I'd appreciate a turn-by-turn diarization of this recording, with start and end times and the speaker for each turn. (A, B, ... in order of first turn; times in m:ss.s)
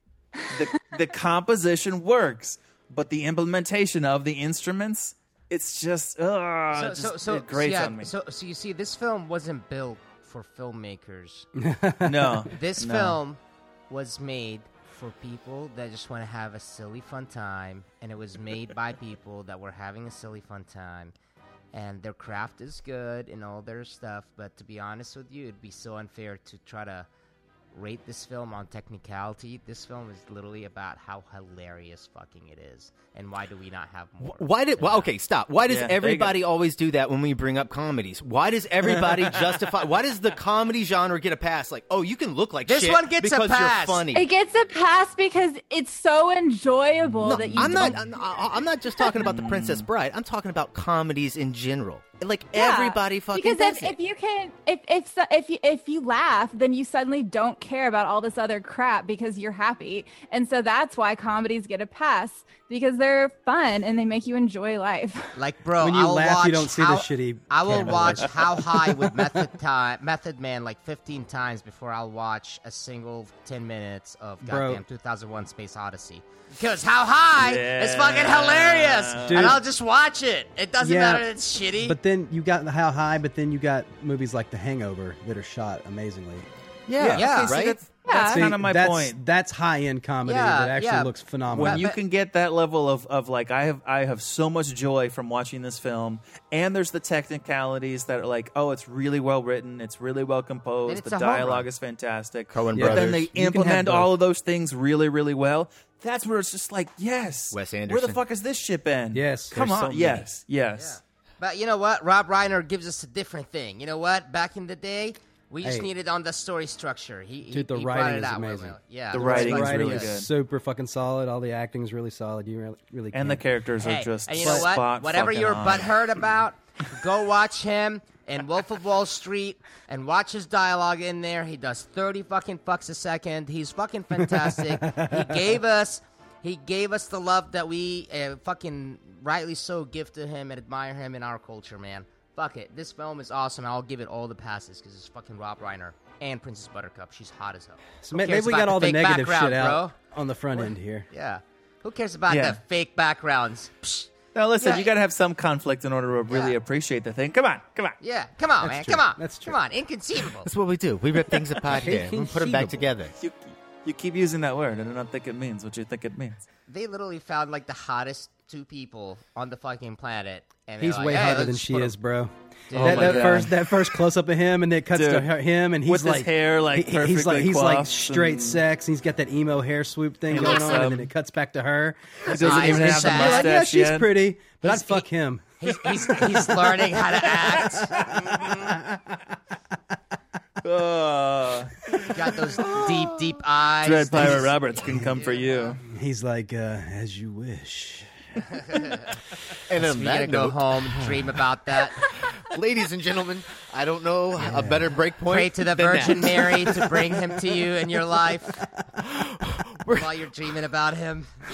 0:00.5-0:08.1 A
0:06.7-0:11.5 B
0:11.6-0:12.4 C
0:12.0-0:13.2 A
0:12.5-0:21.1 B
0:21.7-0:27.1 B
0:27.7-0:35.1 B
0:34.2-0:44.3 D
0:35.7-0:36.3 A
0:42.7-0:44.1 B
0:44.1-0:48.0 E
0:47.2-0:54.0 D
0:47.2-0:48.0 A
0:49.2-0:49.9 A
0:52.5-1:05.3 E
1:05.4-1:22.0 B
1:05.8-1:08.6 C
1:14.4-1:14.8 C
1:17.4-1:19.6 A
1:19.2-1:19.6 C
1:20.8-1:21.3 C
1:21.8-1:26.5 C
1:26.9-1:27.8 D
1:27.0-1:27.4 C
1:27.1-1:29.2 A
1:27.1-1:27.6 B
1:28.0-1:28.4 E
1:28.1-1:31.8 C
1:30.2-1:32.0 B
1:31.5-1:51.0 A
1:40.8-1:41.7 B
1:42.5-1:43.3 D
1:42.7-1:44.1 C
1:47.5-1:48.2 D
1:49.1-1:49.8 C
1:49.5-1:50.2 D
1:50.7-2:00.2 B
1:55.6-1:55.9 C
1:57.5-2:03.4 C
1:59.1-2:00.3 A
2:03.1-2:06.0 A
2:03.8-2:30.0 B
2:04.4-2:04.7 C
2:14.3-2:15.2 C
2:28.0-2:31.1 C
2:30.5-2:34.1 B
2:32.3-2:32.6 A
2:34.3-2:38.0 A
2:34.6-2:34.9 B
2:36.3-2:36.5 B
2:38.0-2:40.5 B
2:38.6-2:39.6 C
2:40.4-2:43.1 D
2:41.7-2:42.8 C
2:43.2-2:46.4 A
2:46.7-2:52.0 B
2:50.8-3:05.6 C
2:52.7-2:53.4 B
2:52.7-2:53.6 A
2:54.9-2:55.3 A
2:55.8-2:58.6 A
3:00.3-3:01.1 A
3:00.4-3:00.8 B
3:02.2-3:04.1 A
3:02.2-3:03.5 B
3:04.6-3:05.1 B
3:05.6-3:08.7 B
3:06.2-3:06.5 C
3:08.0-3:09.2 C
3:10.6-3:11.7 A
3:12.1-3:15.7 B
3:12.6-3:13.3 D
3:13.8-3:15.8 A
3:15.8-3:18.1 C
3:18.5-3:19.1 B
3:19.7-3:21.4 D
3:19.8-3:22.0 B
3:22.2-3:27.2 D
3:24.5-3:28.6 B
3:29.0-3:30.1 D
3:30.0-3:31.3 B